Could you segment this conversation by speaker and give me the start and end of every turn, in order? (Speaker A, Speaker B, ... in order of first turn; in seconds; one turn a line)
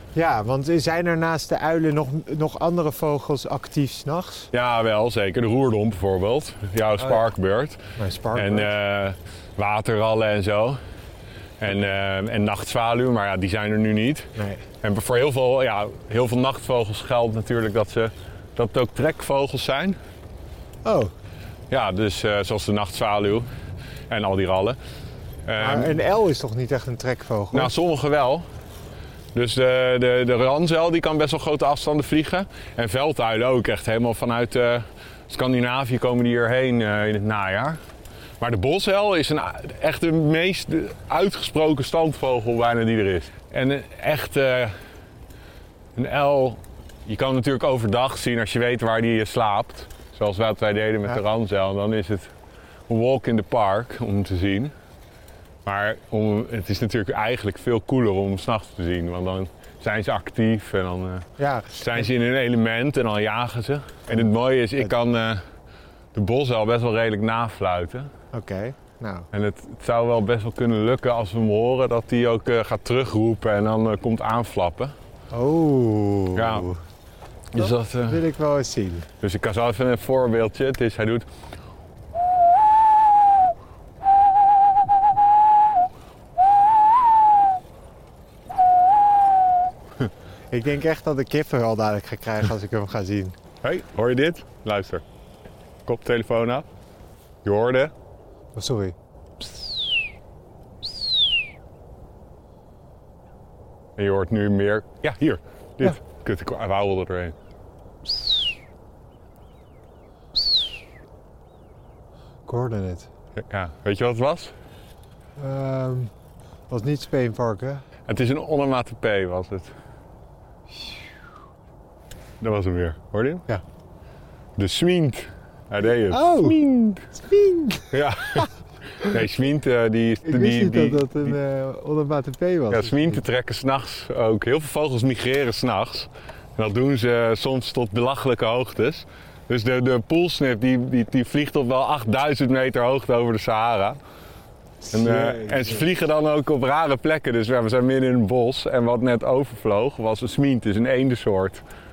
Speaker A: 0.1-4.5
Speaker B: 4.5-7.8
Speaker A: 8.0-8.7
Speaker B: 8.3-10.8
Speaker B: 11.6-20.0
Speaker A: 14.4-14.6
Speaker A: 20.9-21.1
Speaker B: 21.7-23.5
Speaker B: 24.1-24.8
Speaker B: 25.5-25.9
Speaker A: 25.6-27.7
Speaker B: 27.5-28.5
Speaker B: 29.4-37.8
Speaker B: 38.4-44.8
Speaker B: 46.0-52.3
Speaker B: 52.9-54.8
Speaker B: 55.6-65.4
Speaker A: 61.4-62.1
Speaker B: 66.1-68.1
Speaker A: 68.3-69.3
Speaker B: 69.3-74.9
Speaker A: 75.3-76.8
Speaker B: 76.3-76.7
Speaker B: 77.5-78.2
Speaker A: 77.6-79.1
Speaker B: 79.2-81.2
Speaker A: 90.5-93.4
Speaker B: 93.6-95.0
Speaker B: 95.9-96.7
Speaker B: 97.5-97.9
Speaker A: 98.5-99.0
Speaker B: 104.0-107.3
Speaker A: 112.5-113.1
Speaker B: 113.4-114.5
Speaker A: 115.4-116.1
Speaker A: 116.7-117.8
Speaker B: 118.1-119.7
Speaker B: 122.4-123.5
Speaker B: 124.6-127.1
Speaker A: 126.1-128.5
Speaker B: 127.9-131.3
Speaker A: 130.2-133.2
Speaker B: 132.7-144.0
Speaker A: 144.8-145.9
Speaker B: 144.9-151.6